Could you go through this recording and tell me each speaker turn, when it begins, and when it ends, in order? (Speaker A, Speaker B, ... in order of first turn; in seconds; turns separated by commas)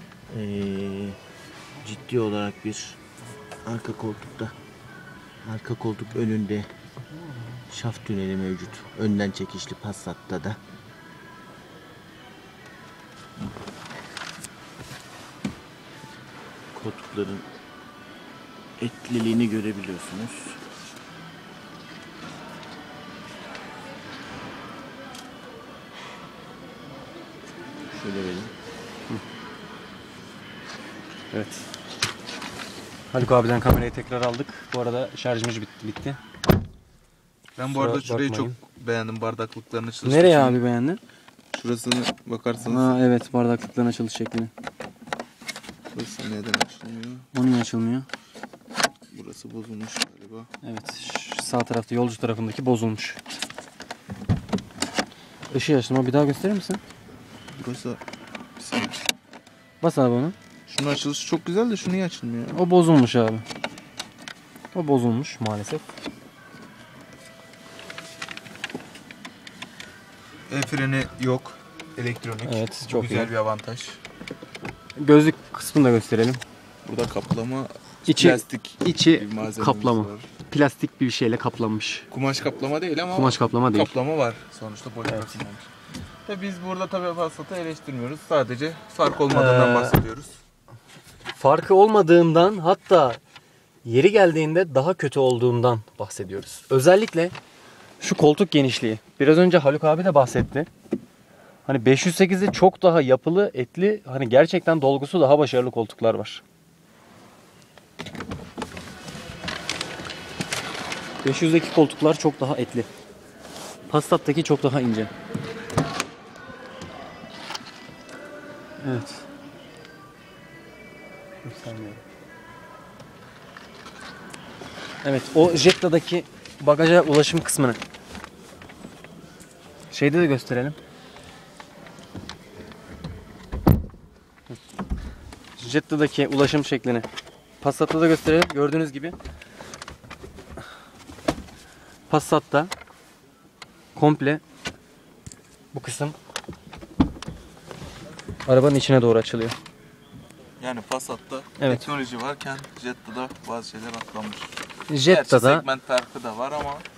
Speaker A: 0.3-1.2, Speaker A: 1.8-3.0, Speaker A: 3.6-4.5, Speaker A: 5.4-6.7, Speaker A: 7.7-10.6, Speaker A: 16.7-17.4, Speaker A: 18.8-20.6, Speaker A: 27.9-28.5, Speaker B: 31.3-31.6, Speaker B: 33.1-36.2, Speaker C: 37.5-40.6, Speaker B: 37.7-38.5, Speaker B: 40.0-41.0, Speaker C: 41.5-42.9, Speaker B: 42.6-44.5, Speaker C: 45.9-47.2, Speaker B: 47.3-48.1, Speaker C: 49.1-50.5, Speaker B: 50.6-53.2, Speaker B: 55.5-56.8, Speaker C: 57.6-58.0, Speaker C: 58.6-59.0, Speaker B: 59.8-60.4, Speaker C: 60.7-62.6, Speaker B: 62.5-63.4, Speaker B: 64.7-65.8, Speaker C: 70.5-74.0, Speaker B: 72.4-73.3, Speaker B: 75.0-76.4, Speaker C: 76.8-80.3, Speaker B: 78.1-82.1, Speaker C: 82.1-85.7, Speaker B: 83.1-83.9, Speaker B: 85.1-85.4, Speaker C: 86.2-90.4, Speaker B: 89.3-90.0, Speaker B: 91.3-93.2, Speaker B: 93.8-97.3, Speaker B: 98.0-100.7, Speaker B: 101.7-106.4, Speaker B: 111.2-112.9, Speaker B: 113.9-115.1, Speaker B: 118.8-119.2, Speaker B: 121.4-122.0, Speaker B: 125.0-127.8, Speaker B: 129.9-130.8, Speaker B: 135.6-137.1, Speaker B: 137.6-139.2, Speaker B: 142.1-142.7, Speaker B: 143.9-144.4, Speaker B: 145.7-146.2, Speaker B: 148.4-149.5, Speaker C: 150.6-154.5, Speaker B: 151.6-151.8, Speaker B: 154.9-155.6, Speaker C: 155.1-156.8